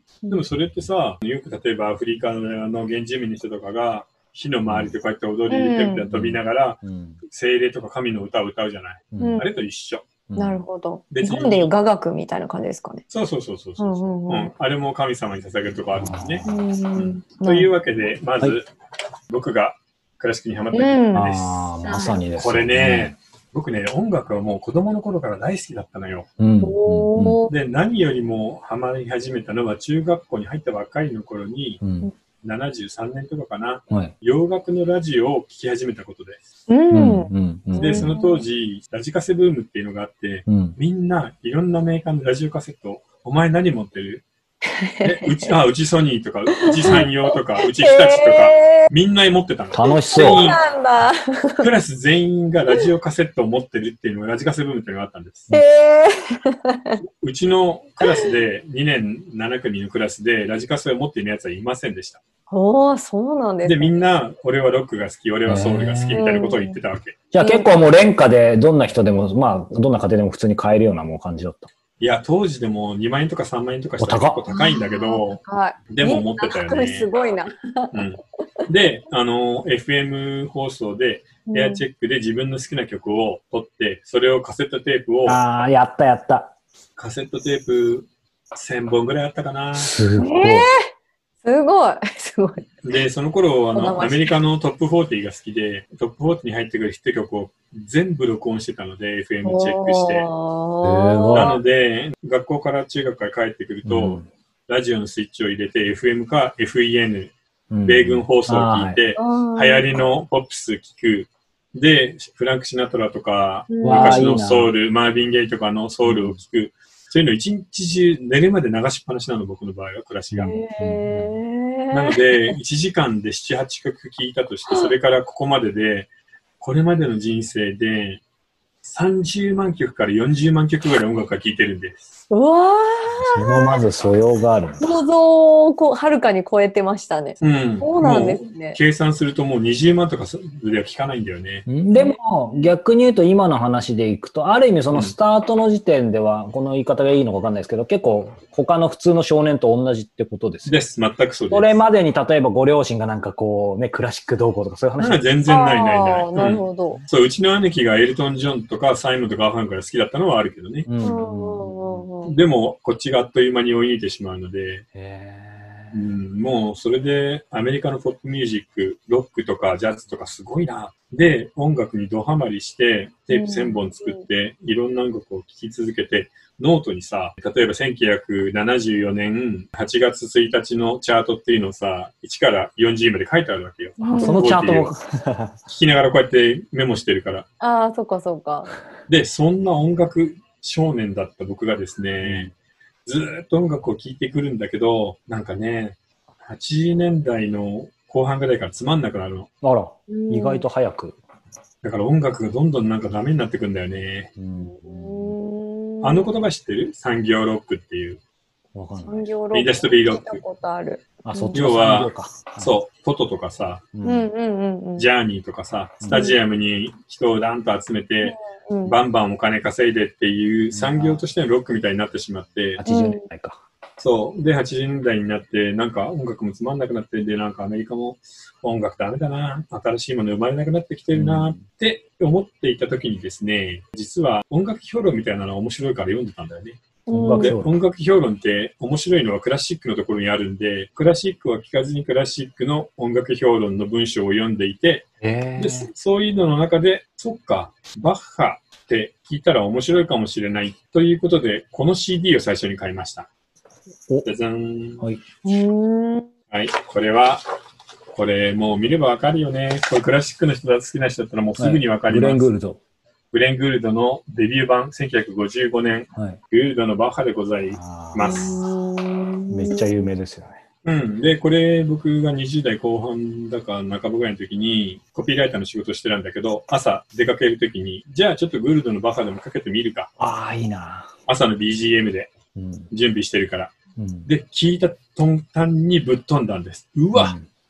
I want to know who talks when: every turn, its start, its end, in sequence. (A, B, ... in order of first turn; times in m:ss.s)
0:00.3-0:10.1 A
0:04.7-0:04.9 B
0:05.5-0:06.1 C
0:06.1-0:07.2 B
0:09.1-0:09.4 B
0:09.2-0:09.5 C
0:10.3-0:10.6 B
0:10.4-0:13.0 C
0:11.1-0:11.7 A
0:13.1-0:18.7 A
0:13.8-0:14.5 C
0:16.0-0:16.6 B
0:16.5-0:17.7 C
0:19.3-0:21.7 A
0:20.7-0:21.3 C
0:21.1-0:23.2 B
0:21.8-0:22.2 C
0:22.4-0:26.3 A
0:26.4-0:27.4 B
0:26.6-0:27.5 C
0:27.5-0:31.8 A
0:31.8-0:32.1 B
0:32.4-0:36.4 A
0:36.7-0:38.4 C
0:36.9-0:38.1 B
0:37.8-0:44.2 A
0:40.5-0:40.8 B
0:44.8-0:45.6 C
0:45.0-0:50.6 A
0:46.6-0:48.9 C
0:49.7-0:50.6 B
0:50.1-0:51.7 C
0:51.6-0:55.5 A
0:55.5-0:57.0 C
0:57.2-1:02.2 A
1:02.5-1:04.0 C
1:03.6-1:07.2 A
1:05.5-1:06.2 B
1:06.1-1:06.8 C
1:07.3-1:11.7 B
1:07.4-1:07.8 C
1:12.0-1:17.1 A
1:14.0-1:14.4 B
1:14.5-1:17.9 C
1:17.9-1:25.4 A
1:21.5-1:21.8 C
1:25.3-1:26.5 B
1:27.0-1:30.0 A
1:29.7-1:30.7 B
1:30.2-1:30.8 C
1:31.4-1:32.7 C
1:32.8-1:40.3 A
1:33.7-1:34.4 C
1:39.4-1:41.6 C
1:40.8-1:41.5 B
1:41.3-1:47.3 A
1:43.8-1:44.3 B
1:47.7-1:49.0 B
1:47.8-2:00.6 A
1:49.2-1:49.8 C
1:53.7-1:54.2 C
1:53.8-1:54.7 B
1:56.0-1:56.4 B
2:00.3-2:01.4 B
2:00.4-2:02.6 C
2:01.9-2:06.1 A
2:04.7-2:04.9 C
2:06.6-2:08.2 A
2:08.8-2:12.0 A
2:12.3-2:13.9 C
2:13.2-2:15.0 B
2:14.8-2:18.8 C
2:17.4-2:21.7 A
2:21.7-2:30.8 B
2:21.9-2:22.7 C
2:30.6-2:31.8 A
2:31.5-2:35.2 B
2:35.0-2:40.9 A
2:35.5-2:37.0 C
2:36.4-2:37.0 B
2:40.9-2:42.1 B
2:41.0-2:42.4 C
2:42.2-2:44.8 A
2:45.0-2:46.1 B
2:45.9-3:04.9 A
2:53.3-2:54.2 C
3:04.0-3:04.4 C
3:04.1-3:05.6 B
3:05.7-3:07.5 A
3:07.6-3:08.7 C
3:09.1-3:12.5 A
3:12.2-3:12.5 B
3:13.1-3:19.5 A
3:19.6-3:21.2 B
3:20.1-3:20.7 C
3:21.8-3:24.3 A
3:24.4-3:25.4 B
3:24.6-3:26.3 C
3:26.0-3:28.2 A
3:28.8-3:29.3 B
3:29.0-3:31.6 C
3:29.5-3:30.4 A
3:31.3-3:32.7 B
3:31.5-3:33.8 A
3:33.9-3:34.3 B
3:34.0-3:35.1 C
3:35.0-3:42.8 A
3:36.1-3:36.4 C
3:38.2-3:39.0 C
3:40.7-3:41.3 B
3:42.8-3:43.6 B
3:42.8-3:43.2 C
3:44.0-3:56.8 A
3:51.1-3:51.6 B
3:57.1-3:57.6 C
3:57.1-3:57.8 B
3:57.4-4:13.3 A
4:05.2-4:05.9 B
4:14.2-4:15.0 A
4:15.4-4:16.3 C
4:16.5-4:17.4 A
4:18.1-4:22.5 A
4:21.6-4:22.8 B
4:23.3-4:28.6 A
4:27.7-4:28.6 B
4:28.2-4:30.1 C
4:29.5-4:30.6 B
4:30.8-4:40.1 A
4:40.2-4:41.1 B
4:41.3-4:42.3 A
4:42.6-4:42.9 B
4:42.9-4:47.4 A
4:44.0-4:44.3 B
4:47.1-4:47.5 B